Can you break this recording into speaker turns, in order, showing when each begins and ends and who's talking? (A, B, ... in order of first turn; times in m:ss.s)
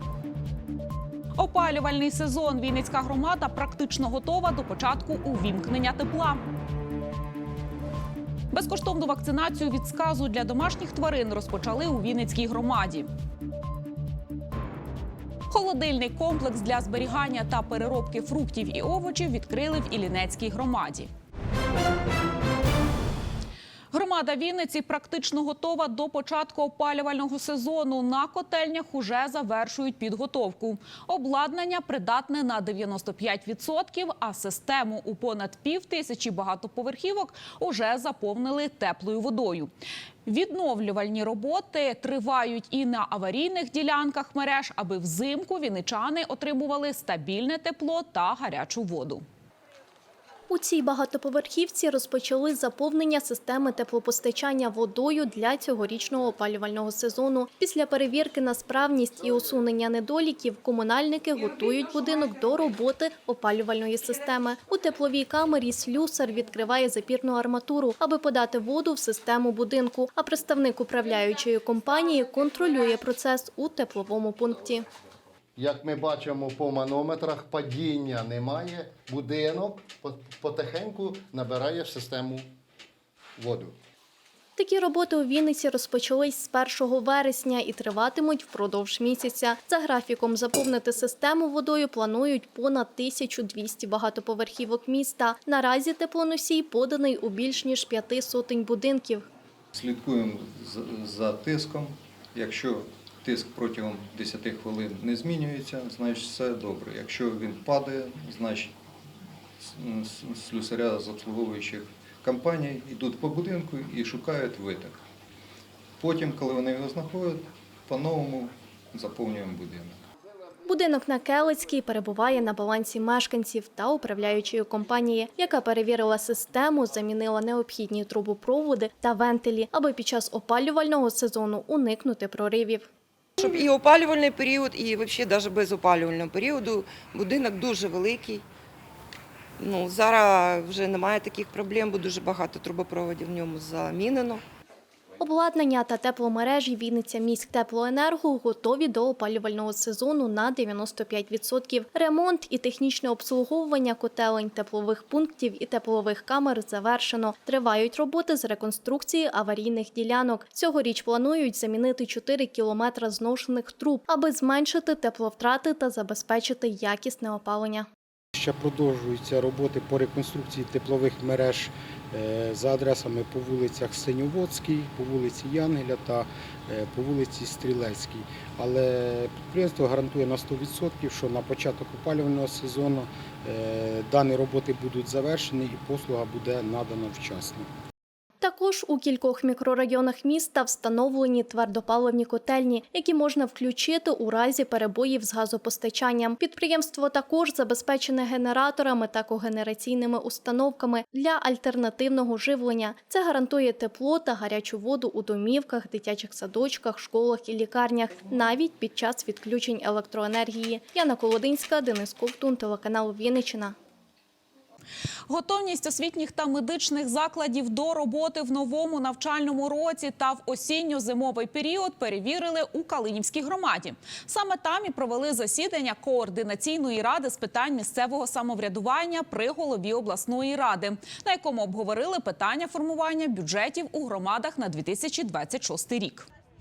0:01.4-0:06.4 A
0:08.5-0:13.1 A
0:15.5-0:21.1 A
0:23.9-0:39.7 A
0:40.2-0:49.2 A
0:50.5-1:14.8 B
1:15.6-1:22.5 C
1:23.4-1:23.8 C
1:24.6-1:39.2 B
1:39.7-1:48.7 D
1:49.8-1:55.0 D
1:56.0-2:00.0 D
2:00.7-2:12.8 B
2:13.4-2:18.4 E
2:19.6-2:24.4 E
2:25.2-2:47.9 B
2:48.3-3:07.7 F
3:08.4-3:33.7 B
3:35.3-3:56.3 A